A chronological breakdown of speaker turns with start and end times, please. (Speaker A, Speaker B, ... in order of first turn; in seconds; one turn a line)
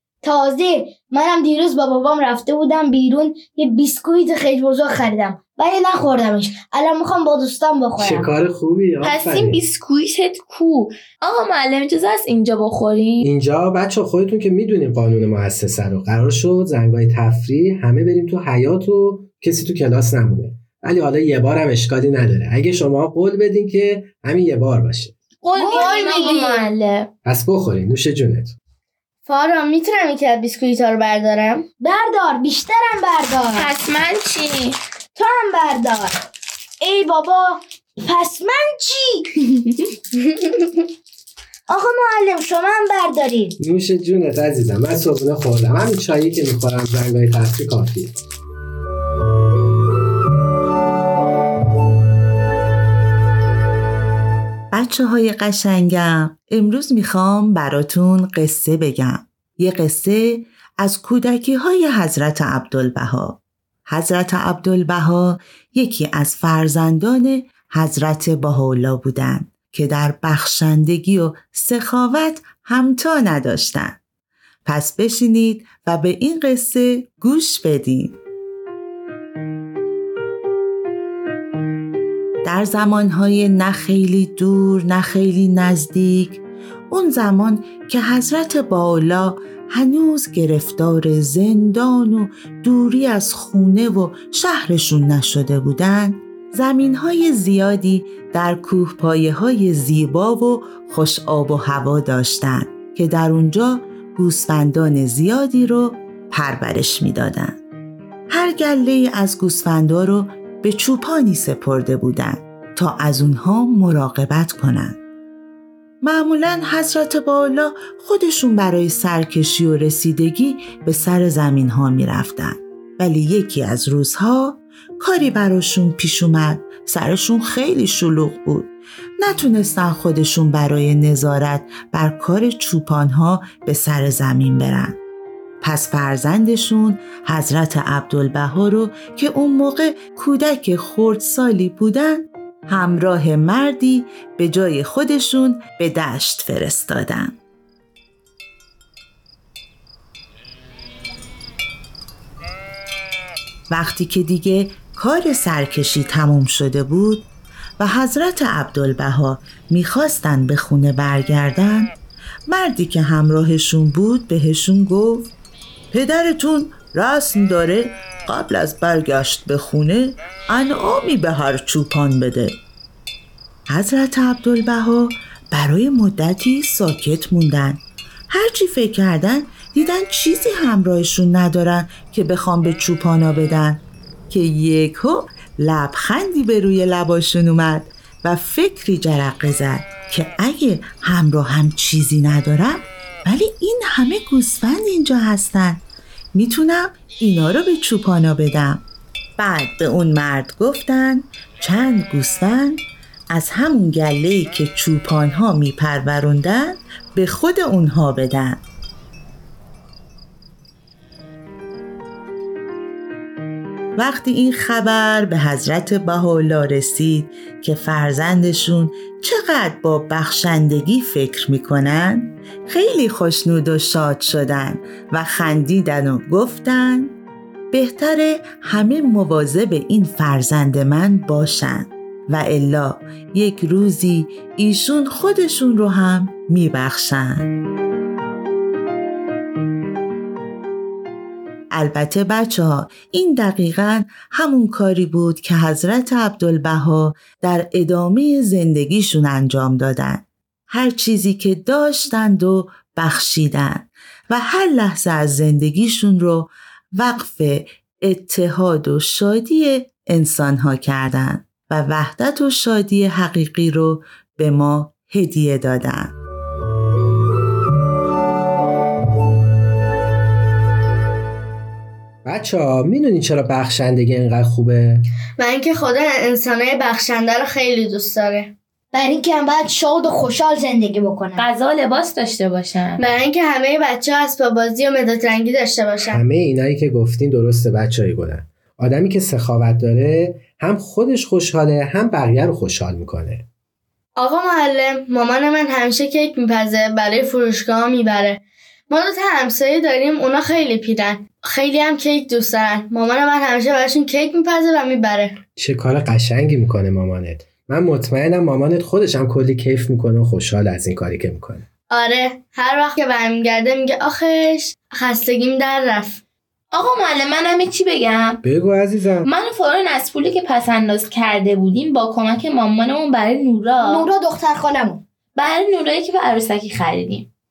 Speaker A: 0.2-8.3
Speaker B: 8.0-9.6
Speaker C: 9.0-13.2
Speaker B: 13.2-25.1
Speaker C: 25.4-27.1
Speaker A: 25.6-26.6
Speaker B: 27.2-28.6
Speaker D: 29.3-31.7
Speaker A: 31.8-33.7
Speaker C: 33.6-34.8
Speaker A: 35.1-36.2
Speaker A: 36.8-39.4
Speaker A: 41.7-43.6
Speaker B: 43.6-48.1
Speaker E: 54.7-74.0
Speaker E: 74.7-78.2
Speaker E: 82.4-107.6
Speaker E: 108.3-115.0
Speaker E: 116.0-135.0
Speaker E: 135.6-147.4
Speaker E: 153.7-157.3
Speaker E: 157.8-161.9
Speaker E: 162.5-165.3
Speaker E: 165.9-172.6
Speaker E: 173.7-198.8
Speaker E: 199.4-208.6
Speaker E: 214.0-227.2
Speaker E: 227.7-237.5
Speaker E: 241.7-266.1
Speaker B: 272.2-275.0
Speaker D: 275.4-278.5
Speaker A: 278.9-281.4
Speaker C: 281.4-283.0
Speaker D: 283.0-286.2
Speaker B: 286.1-293.4
Speaker D: 294.2-305.4
Speaker B: 305.6-311.6
Speaker D: 311.9-316.2
Speaker C: 316.7-318.4
Speaker B: 318.4-319.3
Speaker C: 319.3-324.1
Speaker A: 323.8-325.0
Speaker C: 325.4-327.3